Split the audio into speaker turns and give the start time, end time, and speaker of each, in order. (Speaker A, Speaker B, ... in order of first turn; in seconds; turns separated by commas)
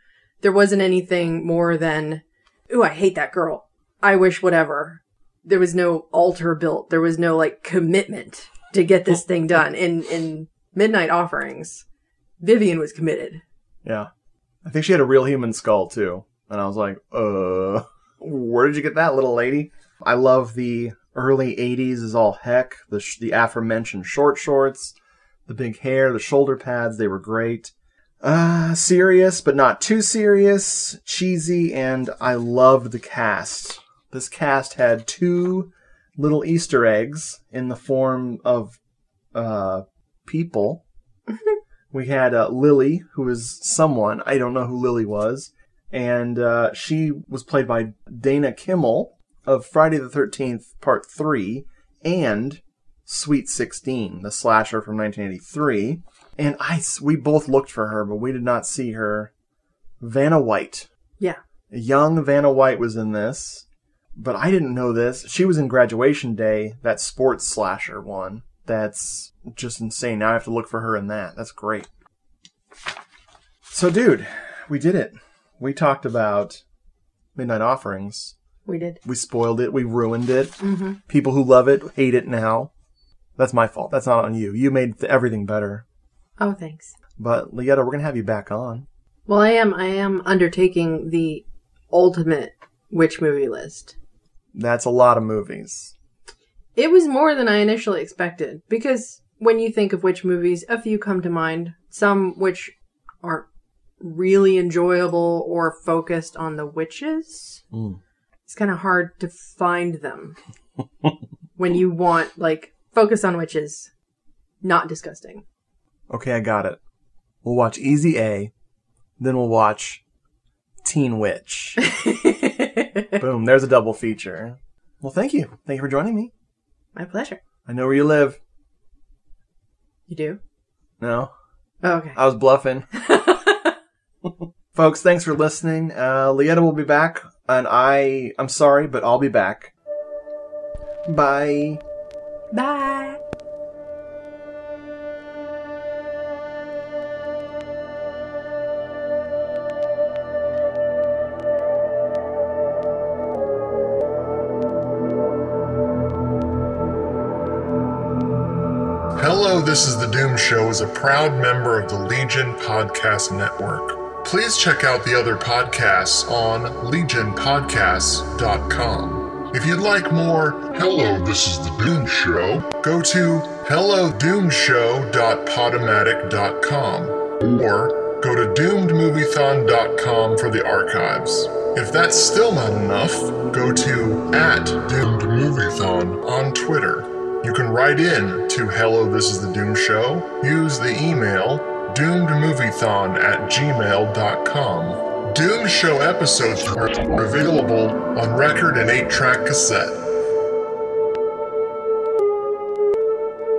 Speaker A: 0.4-11.8, Speaker A: 12.4-13.4, Speaker B: 13.8-14.1, Speaker B: 14.6-38.8, Speaker B: 39.3-40.8, Speaker B: 41.9-59.3, Speaker B: 60.0-60.9, Speaker B: 61.7-71.9, Speaker B: 73.7-76.6, Speaker B: 77.3-78.3, Speaker A: 78.7-79.0, Speaker B: 79.0-82.7, Speaker A: 80.6-81.0, Speaker B: 83.4-85.8, Speaker A: 86.4-86.9, Speaker B: 87.2-88.9, Speaker A: 89.3-94.0, Speaker B: 94.5-95.9, Speaker A: 96.8-103.5, Speaker A: 104.0-107.6, Speaker B: 107.7-108.0, Speaker A: 108.5-110.4, Speaker A: 111.6-113.9, Speaker A: 114.6-115.4, Speaker B: 116.1-116.8, Speaker B: 117.4-118.5, Speaker B: 119.2-120.0, Speaker B: 120.8-121.8, Speaker A: 121.8-123.2, Speaker B: 123.2-126.3, Speaker A: 127.0-127.4, Speaker B: 127.7-128.4, Speaker A: 130.1-130.4, Speaker B: 131.0-131.3, Speaker A: 131.8-132.2, Speaker B: 132.1-132.9, Speaker A: 132.9-133.7, Speaker B: 134.3-139.7, Speaker B: 141.1-141.8, Speaker A: 142.5-143.2, Speaker C: 159.2-199.9